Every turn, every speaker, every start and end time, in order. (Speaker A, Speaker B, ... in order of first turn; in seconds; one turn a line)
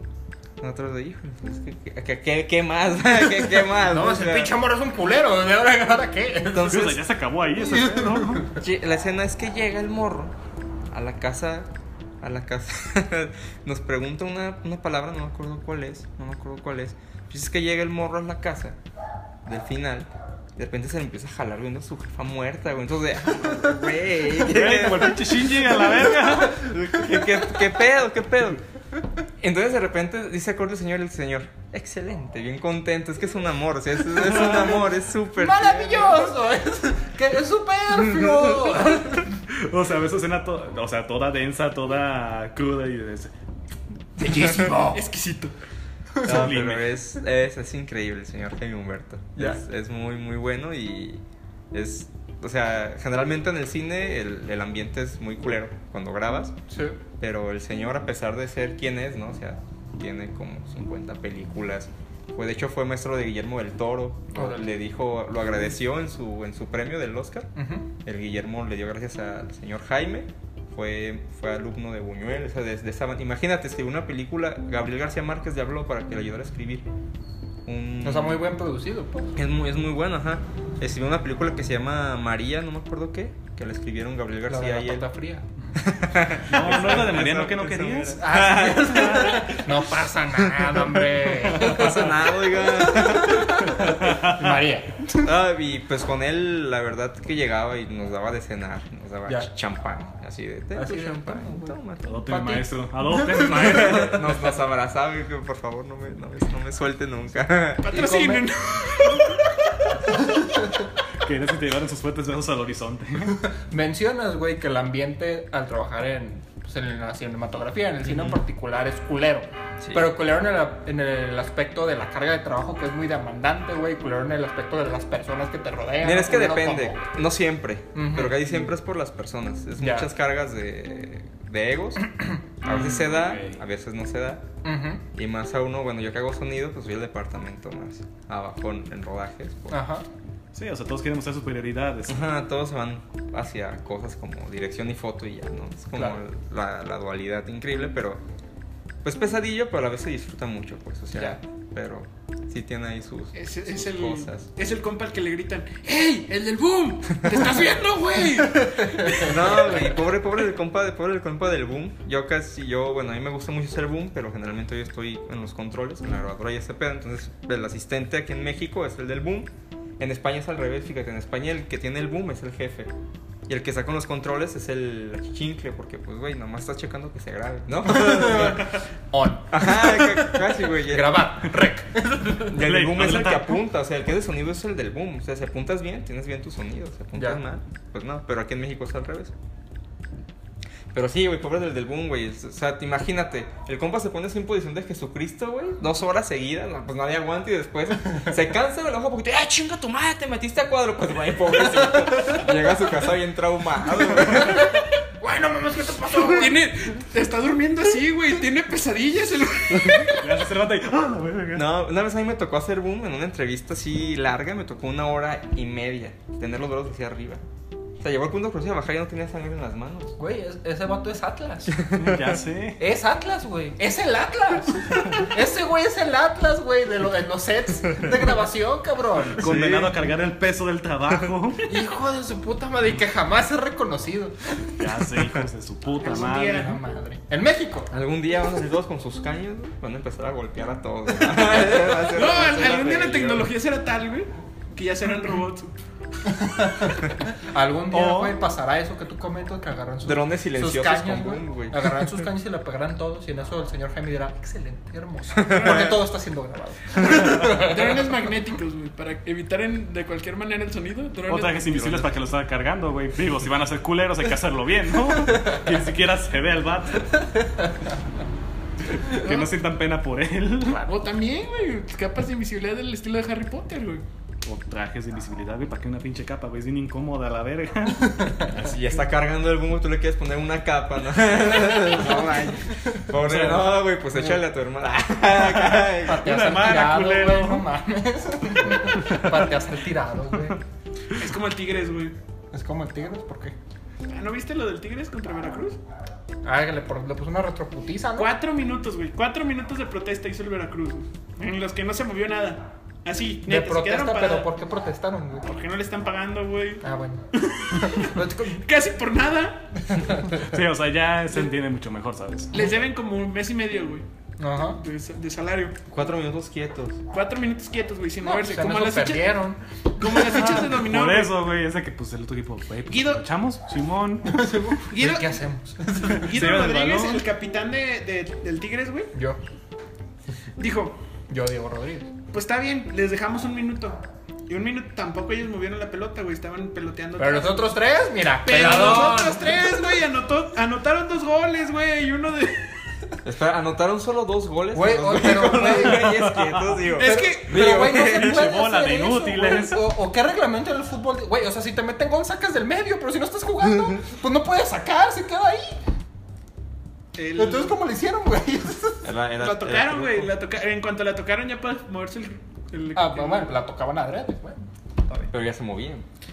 Speaker A: 0.6-4.5
Speaker B: 3.8-6.9
Speaker A: 6.5-7.0
Speaker C: 6.7-8.5
Speaker B: 7.6-8.6
Speaker A: 8.6-10.3
Speaker A: 10.9-11.7
Speaker A: 12.2-18.8
Speaker A: 19.5-25.4
Speaker C: 24.4-26.7
Speaker A: 26.1-28.6
Speaker A: 29.4-36.3
Speaker B: 35.4-39.3
Speaker C: 39.5-43.3
Speaker B: 44.2-45.0
Speaker D: 44.9-45.5
Speaker C: 46.2-47.0
Speaker A: 46.2-56.5
Speaker B: 56.7-57.0
Speaker A: 57.2-67.5
Speaker B: 64.3-64.8
Speaker B: 67.6-67.9
Speaker A: 68.0-76.8
Speaker A: 77.7-78.5
Speaker B: 78.0-79.3
Speaker A: 79.3-85.1
Speaker B: 84.5-85.5
Speaker A: 85.8-89.5
Speaker C: 86.5-89.4
Speaker B: 88.2-95.3
Speaker A: 90.4-91.0
Speaker A: 91.5-93.8
Speaker C: 91.6-91.9
Speaker C: 93.8-94.3
Speaker A: 95.2-102.2
Speaker B: 100.7-103.8
Speaker C: 102.0-104.3
Speaker A: 103.5-108.2
Speaker D: 107.8-109.4
Speaker B: 107.9-108.5
Speaker B: 110.2-110.7
Speaker C: 111.2-113.4
Speaker B: 113.5-127.0
Speaker C: 118.1-118.3
Speaker A: 119.8-120.1
Speaker A: 126.0-132.1
Speaker B: 127.9-128.6
Speaker B: 129.8-130.1
Speaker A: 132.6-134.4
Speaker C: 132.7-133.6
Speaker B: 134.6-135.0
Speaker A: 135.1-139.8
Speaker B: 139.7-140.1
Speaker C: 140.5-142.2
Speaker A: 142.1-148.2
Speaker B: 145.9-146.2
Speaker A: 149.0-154.5
Speaker D: 153.3-159.9
Speaker A: 159.2-172.9
Speaker A: 173.5-178.8
Speaker B: 177.9-182.5
Speaker A: 179.5-181.4
Speaker A: 182.4-189.3
Speaker C: 182.5-183.5
Speaker B: 187.2-187.4
Speaker A: 190.9-204.7
Speaker B: 204.3-206.7
Speaker D: 206.1-210.3
Speaker C: 210.1-211.7
Speaker A: 211.5-217.4
Speaker A: 218.0-220.2
Speaker B: 220.2-221.8
Speaker A: 221.7-222.4
Speaker C: 221.9-222.8
Speaker B: 222.8-229.4
Speaker C: 229.4-231.7
Speaker A: 229.4-230.0
Speaker B: 231.6-235.2
Speaker C: 234.8-236.8
Speaker D: 236.0-236.8
Speaker B: 236.3-237.9
Speaker A: 237.9-243.5
Speaker D: 242.1-245.8
Speaker B: 246.3-258.1
Speaker C: 247.9-248.4
Speaker A: 250.1-252.1
Speaker A: 255.3-256.0
Speaker D: 255.4-256.0
Speaker D: 257.2-262.0
Speaker C: 261.3-267.3
Speaker A: 261.8-262.1
Speaker C: 269.1-270.8
Speaker D: 269.2-269.5
Speaker D: 270.7-274.0
Speaker C: 274.4-278.5
Speaker A: 278.5-286.2
Speaker C: 283.2-283.8
Speaker C: 285.4-287.6
Speaker B: 286.0-290.6
Speaker D: 291.2-292.1
Speaker B: 292.5-293.6
Speaker D: 294.1-295.8
Speaker B: 296.4-298.3
Speaker D: 298.2-304.5
Speaker B: 303.4-305.5
Speaker D: 305.4-306.8
Speaker B: 306.8-308.6
Speaker D: 307.3-309.7
Speaker B: 309.9-310.5
Speaker C: 310.4-312.6
Speaker D: 312.5-314.1
Speaker B: 314.4-314.8
Speaker D: 314.8-315.8
Speaker A: 315.9-317.0
Speaker D: 317.1-319.4
Speaker B: 318.2-320.2
Speaker D: 320.0-321.4
Speaker C: 320.4-324.4
Speaker D: 322.9-323.2
Speaker B: 324.2-326.3
Speaker D: 324.9-325.3
Speaker D: 326.1-329.1
Speaker C: 326.2-327.2
Speaker B: 329.1-329.4
Speaker D: 330.6-331.0
Speaker B: 331.3-332.1
Speaker D: 332.3-337.7
Speaker B: 337.2-339.7
Speaker D: 338.4-342.7
Speaker A: 343.2-348.5
Speaker B: 344.7-346.2
Speaker C: 346.0-346.7
Speaker D: 346.9-347.8
Speaker B: 347.0-355.8
Speaker C: 347.7-349.9
Speaker D: 357.1-357.8
Speaker B: 357.4-359.1
Speaker A: 359.0-360.3
Speaker D: 359.4-363.6
Speaker B: 362.9-365.3
Speaker A: 365.3-366.1